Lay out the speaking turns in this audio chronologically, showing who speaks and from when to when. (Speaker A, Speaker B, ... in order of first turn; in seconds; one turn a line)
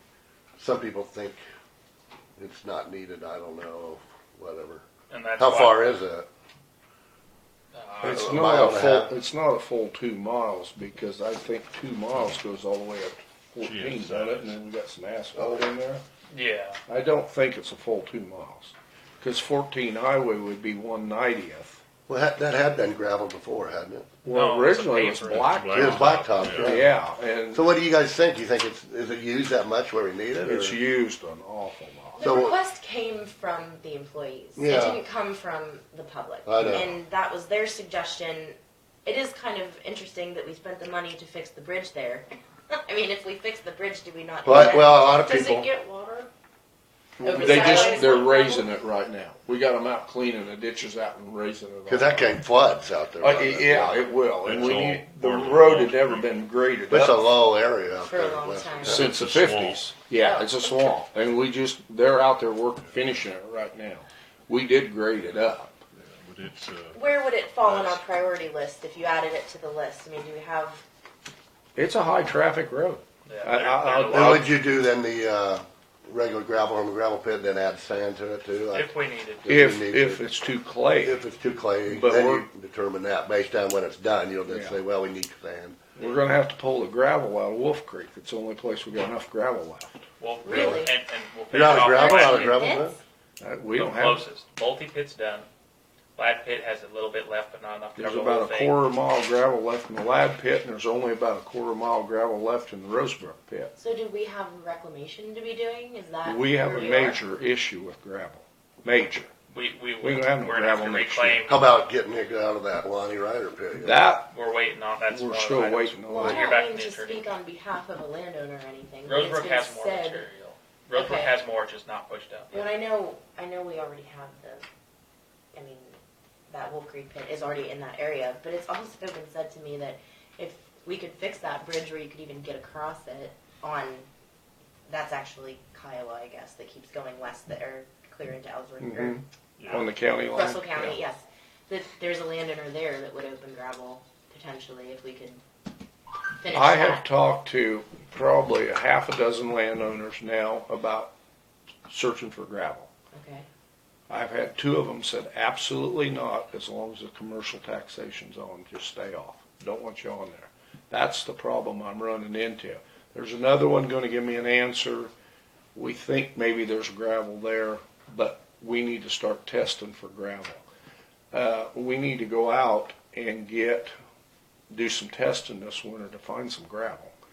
Speaker A: 0.6-1.4
Speaker A: 2.4-4.8
Speaker B: 5.1-6.0
Speaker A: 5.4-6.3
Speaker B: 7.7-8.3
Speaker C: 8.0-16.0
Speaker A: 8.0-9.1
Speaker D: 13.6-14.5
Speaker A: 15.4-15.7
Speaker B: 16.3-16.8
Speaker C: 16.9-21.8
Speaker A: 22.1-24.1
Speaker C: 24.2-27.6
Speaker B: 24.3-25.6
Speaker D: 25.3-26.8
Speaker A: 25.7-26.9
Speaker A: 27.5-30.8
Speaker C: 30.4-32.3
Speaker E: 32.1-46.3
Speaker A: 32.2-32.5
Speaker A: 34.5-35.0
Speaker A: 36.5-36.9
Speaker A: 44.4-45.7
Speaker C: 47.2-52.4
Speaker E: 47.2-48.7
Speaker A: 51.9-54.1
Speaker C: 53.2-57.2
Speaker D: 54.4-56.4
Speaker A: 56.9-59.1
Speaker E: 58.0-59.0
Speaker D: 58.8-59.9
Speaker C: 58.8-65.8
Speaker E: 60.1-60.8
Speaker D: 66.0-68.0
Speaker E: 66.9-70.8
Speaker C: 71.8-74.5
Speaker B: 73.3-74.5
Speaker A: 74.1-78.9
Speaker B: 78.7-79.4
Speaker A: 79.4-80.2
Speaker C: 79.5-81.2
Speaker A: 81.0-85.8
Speaker C: 81.9-82.5
Speaker C: 84.5-84.8
Speaker C: 86.0-90.0
Speaker B: 90.2-92.6
Speaker A: 90.4-90.8
Speaker E: 90.4-90.9
Speaker A: 91.5-93.0
Speaker E: 91.8-93.0
Speaker C: 93.4-94.2
Speaker B: 93.7-95.5
Speaker B: 96.2-98.7
Speaker C: 98.0-103.7
Speaker E: 103.8-107.2
Speaker C: 106.2-109.3
Speaker B: 109.5-111.7
Speaker C: 110.0-111.4
Speaker A: 111.5-114.0
Speaker C: 113.8-114.3
Speaker B: 114.3-117.3
Speaker C: 115.1-116.4
Speaker E: 116.1-120.3
Speaker B: 119.0-122.7
Speaker E: 120.9-121.3
Speaker E: 122.5-124.6
Speaker E: 125.5-125.9
Speaker E: 126.5-134.1
Speaker E: 134.9-139.2
Speaker C: 138.8-141.0
Speaker D: 139.6-139.8
Speaker E: 140.3-145.4
Speaker E: 146.4-147.0
Speaker C: 146.5-151.1
Speaker C: 151.9-152.9
Speaker E: 153.1-153.5
Speaker C: 154.1-165.1
Speaker C: 165.7-170.6
Speaker C: 171.3-173.9
Speaker C: 174.7-177.1